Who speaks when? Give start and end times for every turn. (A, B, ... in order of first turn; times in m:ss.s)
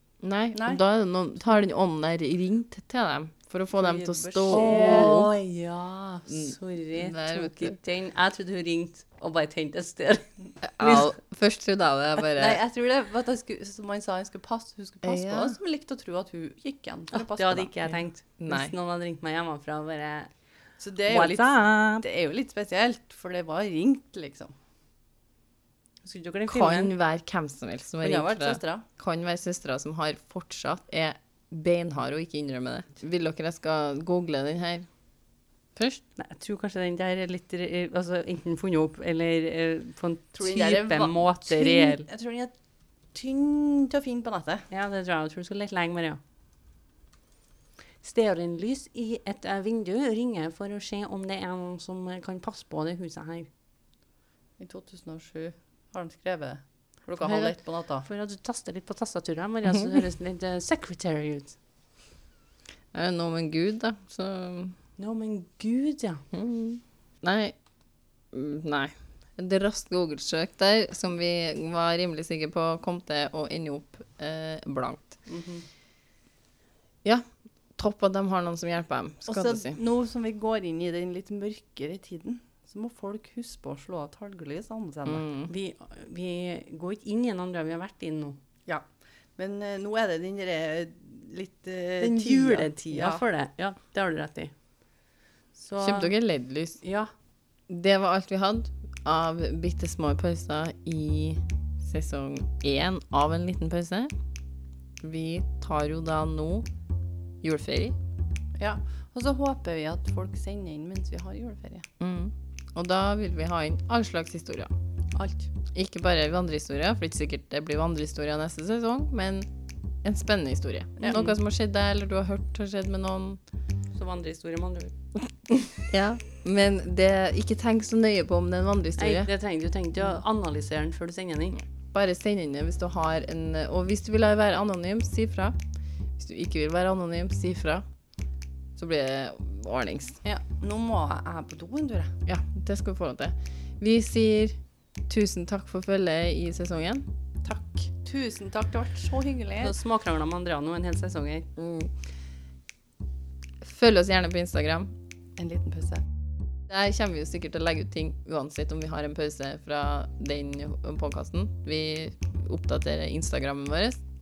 0:00.2-0:05.3 A
0:00.5-0:00.8 B
0:03.8-0:05.3 B
0:04.5-0:10.2 C
0:06.3-0:07.8 A
0:10.6-0:12.6 A
0:12.3-0:17.7 B
0:15.0-0:15.6 A
0:17.1-0:20.3 C
0:18.4-0:18.7 A
0:20.8-0:24.5 B
0:21.1-0:22.0 C
0:26.0-0:26.9 C
0:26.5-0:34.9 A
0:28.0-0:28.8 B
0:35.8-0:36.0 A
0:36.2-0:42.0 C
0:40.4-0:42.5 B
0:40.4-0:40.7 A
0:43.1-0:44.6 B
0:44.7-0:46.2 C
0:48.0-0:53.5 C
0:54.6-0:58.0 B
0:57.2-0:57.5 A
0:58.0-1:01.6 C
1:02.9-1:04.7 A
1:05.0-1:06.2 C
1:06.3-1:07.5 A
1:08.3-1:15.2 A
1:15.3-1:15.6 C
1:17.8-1:19.8 A
1:19.3-1:25.2 B
1:25.1-1:25.5 A
1:25.5-1:28.4 C
1:29.4-1:33.2 B
1:32.0-1:34.5 C
1:35.6-1:36.1 C
1:35.8-1:36.8 A
1:36.8-1:37.1 C
1:37.7-1:44.1 A
1:45.0-1:46.7 A
1:47.4-1:48.0 A
1:48.6-1:51.9 B
1:52.0-1:54.7 A
1:55.1-1:55.5 C
1:55.7-1:59.5 A
2:00.0-2:03.4 A
2:01.0-2:01.4 C
2:03.9-2:04.9 C
2:05.7-2:09.3 A
2:09.0-2:11.6 C
2:11.9-2:15.5 A
2:16.2-2:17.8 A
2:18.8-2:20.2 A
2:20.2-2:22.1 B
2:22.2-2:24.6 A
2:25.1-2:27.0 A
2:27.4-2:29.7 B
2:29.6-2:31.5 C
2:31.6-2:31.9 A
2:33.6-2:34.9 A
2:35.4-2:36.0 B
2:36.7-2:44.0 A